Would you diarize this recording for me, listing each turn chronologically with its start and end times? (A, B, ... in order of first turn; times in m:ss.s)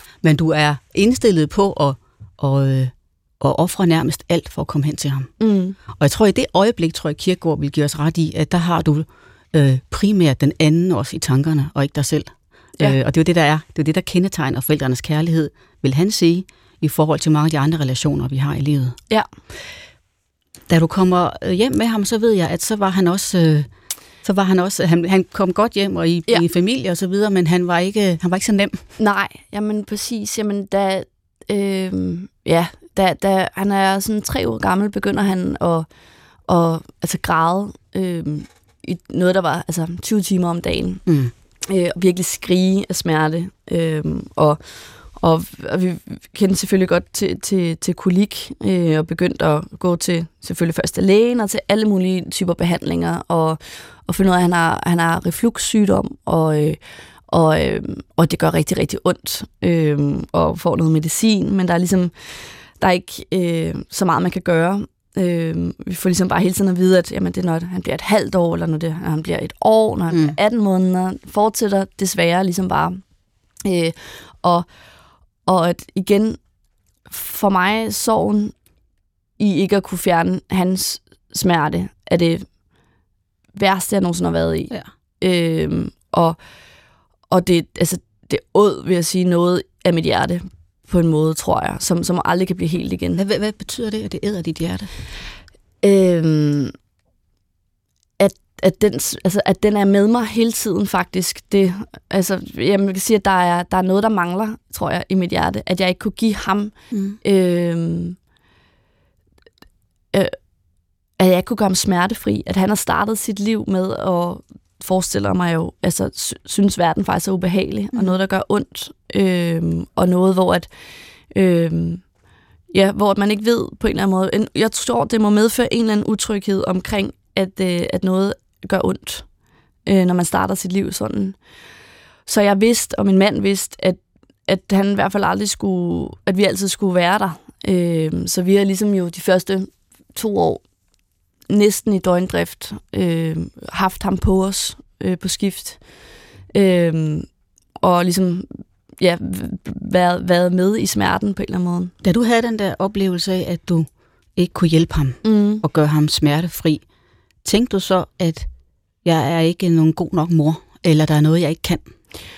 0:00.2-0:05.3 A
0:05.4-0:05.8 B
0:05.9-0:19.0 A
0:20.7-0:23.7 A
0:24.2-0:28.8 A
0:29.0-0:35.9 B
0:36.5-0:41.0 B
0:41.1-0:41.3 A
0:41.6-0:44.6 B
0:45.1-1:13.0 B
1:10.1-1:10.4 A
1:13.6-1:14.7 B
1:15.4-1:16.4 B
1:17.1-1:18.5 B
1:19.4-1:22.5 B
1:23.6-1:26.4 B
1:27.3-1:33.2 B
1:33.2-1:34.9 A
1:35.8-1:36.7 B
1:38.2-1:48.2 B
1:46.9-1:47.2 A
1:51.2-2:00.7 B
2:01.3-2:02.0 B
2:02.7-2:09.2 B
2:09.8-2:11.4 B
2:12.2-2:20.6 B
2:21.5-2:25.8 B
2:26.5-2:27.3 B
2:27.8-2:31.9 B
2:32.0-2:36.8 A
2:35.2-2:35.6 B
2:37.4-2:38.5 A
2:39.0-2:41.8 A